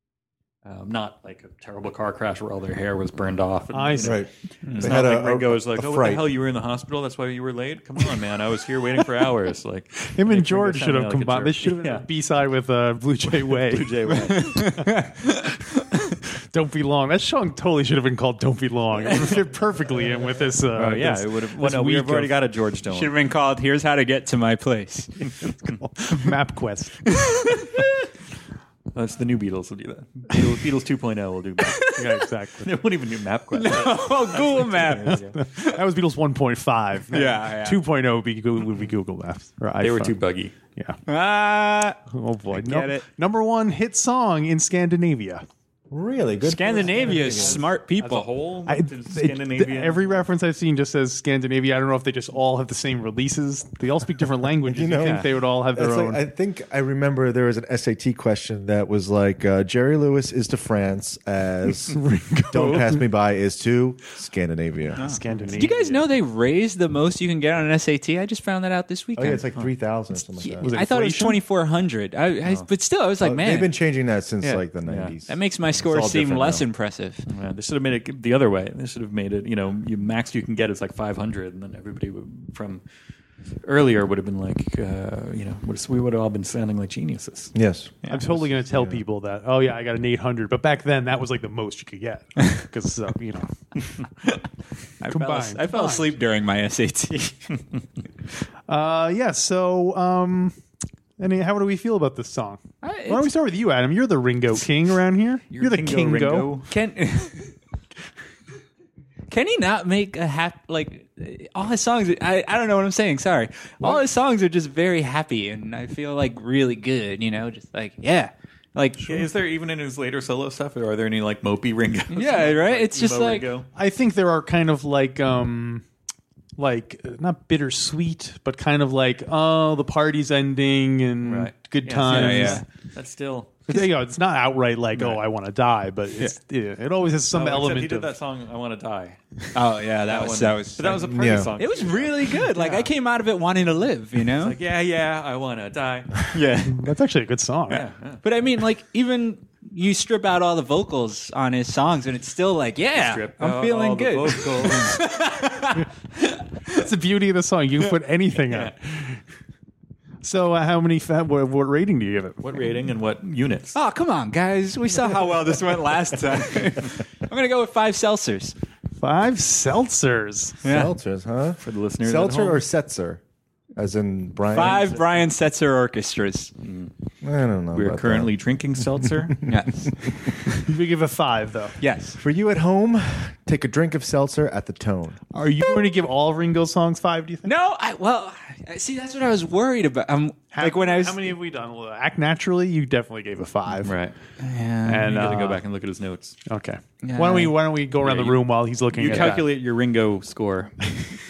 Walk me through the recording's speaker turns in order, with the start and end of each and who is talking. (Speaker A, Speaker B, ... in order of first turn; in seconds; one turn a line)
Speaker A: 0.6-4.2
Speaker B: 3.7-4.2
Speaker C: 4.0-6.3
Speaker D: 4.7-4.9
Speaker A: 4.8-12.1
Speaker B: 10.1-13.9
Speaker A: 13.3-14.7
Speaker D: 14.2-15.4
Speaker B: 16.4-22.4
Speaker A: 20.7-23.2
Speaker D: 22.9-25.1
Speaker A: 25.2-25.7
Speaker B: 25.6-27.1
Speaker D: 27.1-27.9
Speaker A: 28.9-31.9
Speaker D: 31.7-32.1
Speaker B: 31.9-32.7
Speaker A: 32.6-35.4
Speaker D: 33.5-35.8
Speaker B: 35.0-40.1
Speaker D: 37.1-37.8
Speaker A: 39.8-40.6
Speaker D: 41.1-42.0
Speaker B: 42.1-45.5
Speaker D: 42.5-43.0
Speaker C: 45.9-47.6
Speaker D: 46.4-48.3
Speaker A: 47.1-50.2
Speaker B: 48.7-56.2
Speaker C: 54.6-65.0
Speaker A: 55.0-55.3
Speaker B: 61.9-63.0
Speaker D: 65.0-69.4
Speaker B: 65.0-66.0
Speaker C: 69.2-70.8
Speaker D: 70.3-73.7
Speaker B: 70.6-71.4
Speaker A: 72.4-72.7
Speaker C: 73.2-76.7
Speaker A: 74.4-75.2
Speaker D: 75.3-77.2
Speaker A: 77.3-82.8
Speaker A: 83.6-87.5
Speaker C: 87.5-89.0
Speaker B: 88.1-93.5
Speaker D: 95.0-97.5
Speaker B: 95.0-96.1
Speaker B: 98.7-100.5
Speaker B: 101.2-106.5
Speaker D: 102.8-103.3
Speaker A: 105.5-106.7
Speaker D: 106.7-107.5
Speaker D: 109.3-119.2
Speaker A: 119.0-123.7
Speaker D: 122.1-123.5
Speaker B: 123.7-125.8
Speaker B: 126.6-132.6
Speaker A: 131.2-133.6
Speaker D: 132.1-132.7
Speaker B: 133.7-138.1
Speaker A: 137.3-139.2
Speaker D: 139.5-144.6
Speaker A: 140.1-142.9
Speaker C: 141.0-141.5
Speaker A: 144.4-146.2
Speaker D: 146.3-146.9
Speaker B: 146.7-147.8
Speaker A: 147.7-148.2
Speaker D: 148.2-155.9
Speaker A: 152.9-155.0
Speaker B: 156.7-159.2
Speaker A: 158.4-158.7
Speaker B: 160.2-162.4
Speaker A: 162.4-163.8
Speaker D: 163.8-168.6
Speaker B: 169.0-170.6
Speaker D: 170.6-170.9
Speaker C: 170.6-173.2
Speaker A: 171.6-172.6
Speaker C: 173.8-174.9
Speaker D: 174.5-176.5
Speaker A: 174.6-175.3
Speaker A: 176.6-176.9
Speaker C: 177.2-178.4
Speaker A: 177.7-179.4
Speaker D: 179.5-180.6
Speaker B: 180.7-181.8
Speaker D: 181.8-182.2
Speaker C: 182.2-185.2
Speaker B: 185.3-187.5
Speaker D: 187.4-191.3
Speaker B: 190.5-193.9
Speaker A: 193.8-194.2
Speaker D: 194.4-195.2
Speaker B: 194.9-195.6
Speaker A: 195.1-196.4
Speaker B: 196.5-199.5
Speaker D: 197.0-197.6
Speaker A: 198.0-201.0
Speaker D: 198.9-199.5